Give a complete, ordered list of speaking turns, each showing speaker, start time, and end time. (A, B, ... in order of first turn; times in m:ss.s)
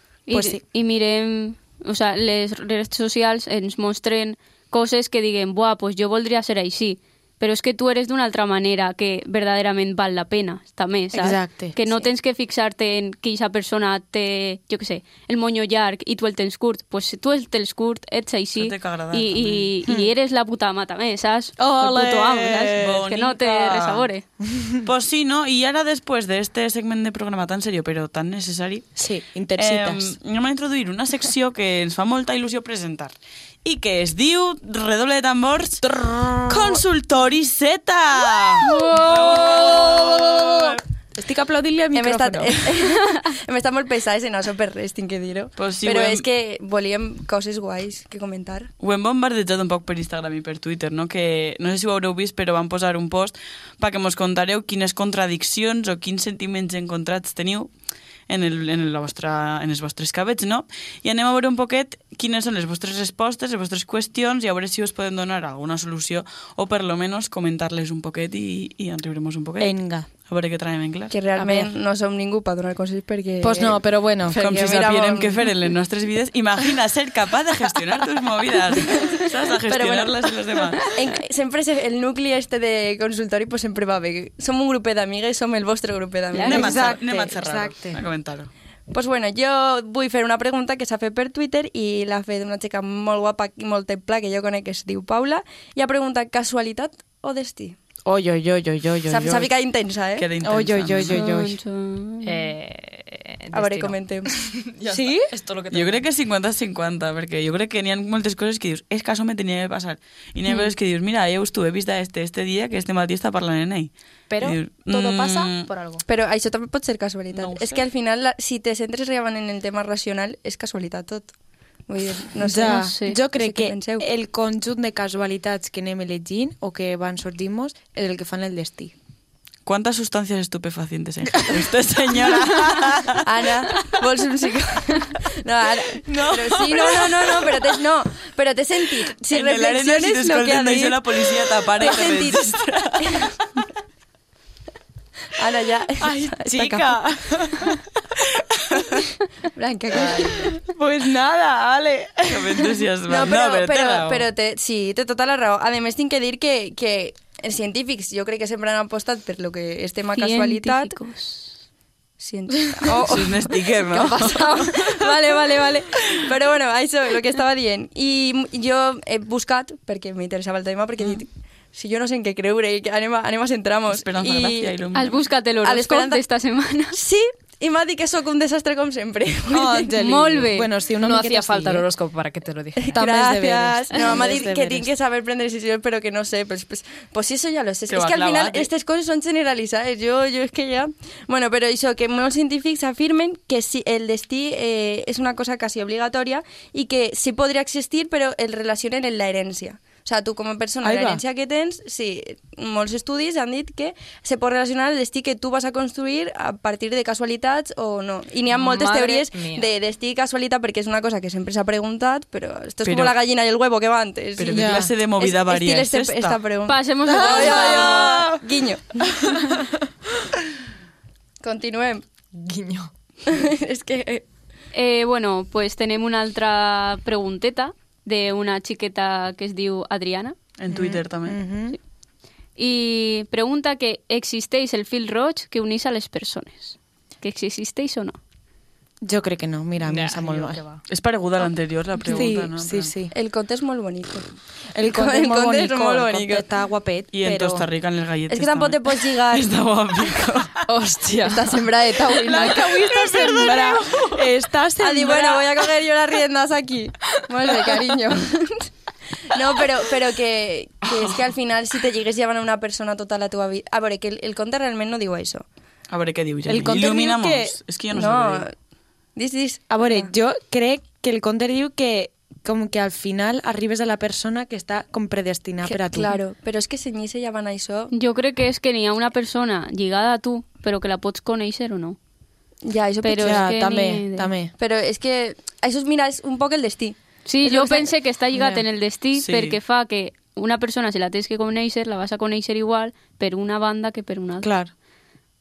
0:00.3-0:24.2 A
0:00.3-0:00.6 B
0:11.1-0:11.8 B
0:18.6-0:19.6 C
0:21.6-0:22.1 B
0:21.8-0:24.1 C
0:24.4-0:24.8 B
0:24.8-0:28.9 C
0:29.0-0:30.1 B
0:29.6-0:35.8 C
0:35.8-0:36.8 B
0:36.5-0:40.8 C
0:38.6-0:42.6 B
0:41.9-0:48.7 D
0:45.6-0:46.2 C
0:48.8-0:57.7 C
0:58.3-1:11.1 C
1:09.6-1:10.1 B
1:11.1-1:15.5 D
1:11.4-1:11.7 B
1:13.4-1:14.4 B
1:14.3-1:20.9 C
1:19.6-1:20.3 D
1:20.8-1:27.2 D
1:26.4-1:28.5 C
1:26.4-1:28.0 B
1:28.9-1:37.8 D
1:38.0-1:39.5 B
1:39.1-1:40.3 D
1:40.2-1:41.2 C
1:40.4-1:41.6 B
1:41.1-1:42.5 A
1:42.2-1:46.1 E
1:43.5-1:44.3 D
1:44.9-1:45.3 B
1:45.7-1:55.7 C
1:54.3-1:56.0 E
1:56.0-2:01.3 D
1:57.3-1:57.8 C
2:01.9-2:04.1 D
2:02.4-2:08.9 B
2:02.6-2:03.2 A
2:09.6-2:13.2 C
2:13.2-2:23.3 D
2:16.0-2:17.5 B
2:19.3-2:23.3 C
2:25.3-2:27.0 D
2:26.0-2:27.8 B
2:29.5-2:30.6 D
2:30.0-2:32.6 B
2:32.2-2:34.2 C
2:33.1-2:40.9 D
2:40.2-2:41.6 A
2:42.2-2:54.8 D
2:42.9-2:45.0 C
2:53.9-2:55.2 C
2:54.9-2:57.0 A
2:55.6-2:56.2 D
2:56.9-2:59.9 D
2:59.5-3:01.8 B
3:00.0-3:00.7 A
3:01.0-3:03.0 E
3:02.8-3:39.0 D
3:02.9-3:04.9 B
3:07.9-3:08.7 C
3:20.8-3:21.2 B
3:28.5-3:29.7 E
3:32.8-3:33.1 C
3:34.4-3:36.4 C
3:34.5-3:34.9 B
3:36.7-3:38.2 A
3:37.0-3:38.3 B
3:39.1-3:39.6 B
3:41.4-3:42.0 D
3:42.3-3:42.9 E
3:43.2-3:44.2 D
3:44.7-3:50.4 A
3:50.6-3:51.4 C
3:50.7-3:51.8 B
3:52.6-3:58.2 A
3:59.0-4:00.6 B
3:59.8-4:00.8 E
4:00.9-4:02.9 C
4:02.1-4:03.1 B
4:03.1-4:04.3 D
4:04.7-4:07.7 B
4:04.8-4:06.4 D
4:07.1-4:10.6 C
4:08.3-4:09.5 D
4:10.7-4:11.6 E
4:11.2-4:12.7 D
4:12.0-4:14.2 C
4:12.3-4:15.5 B
4:14.8-4:18.7 D
4:19.3-4:25.4 D
4:25.9-4:28.4 C
4:26.4-4:27.6 B
4:27.9-4:28.5 D
4:29.2-4:30.1 D
4:29.7-4:36.1 B
4:35.6-4:37.9 D
4:37.9-4:42.0 A
4:42.6-4:43.5 D
4:43.0-4:44.3 A
4:43.2-4:44.5 B
4:44.6-4:47.9 D
4:47.2-4:54.5 A
4:48.3-4:48.6 B
4:49.2-4:49.6 C
4:54.4-4:54.7 B